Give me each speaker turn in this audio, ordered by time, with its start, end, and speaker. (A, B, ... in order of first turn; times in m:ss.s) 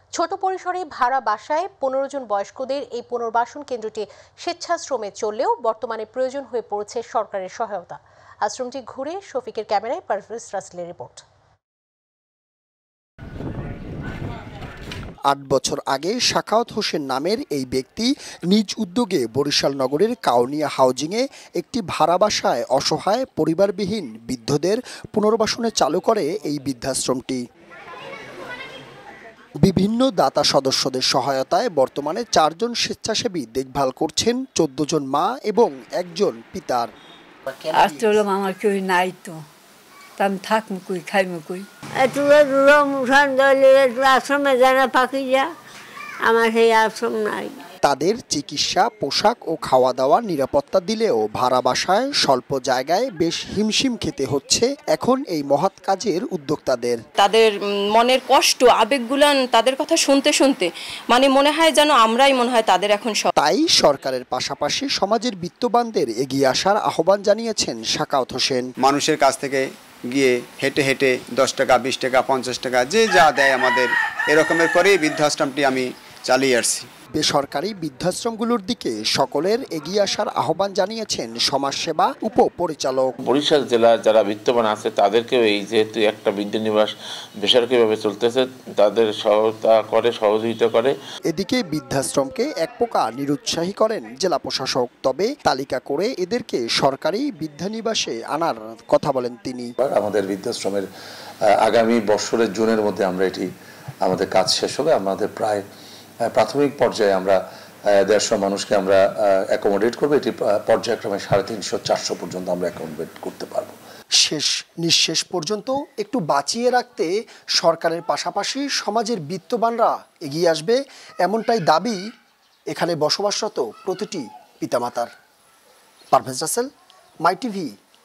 0:00.1-0:11.2 A
0:15.3-0:27.4 B
0:29.6-0:36.9 B
0:37.6-0:39.4 C
0:37.8-0:38.1 B
0:40.2-0:41.7 C
0:42.0-0:45.5 D
0:46.2-0:47.5 D
0:47.8-0:57.0 B
0:57.2-1:03.3 E
1:03.4-1:08.7 B
1:08.8-1:16.9 F
1:17.2-1:23.1 B
1:23.2-1:30.9 G
1:31.3-1:39.7 B
1:39.8-1:40.9 H
1:41.6-1:43.5 H
1:44.0-1:45.6 H
1:46.3-1:47.4 H
1:48.1-1:49.0 H
1:49.5-1:53.8 H
1:54.2-2:02.0 B
2:02.7-2:05.1 B
2:06.1-2:06.7 B
2:07.2-2:07.7 B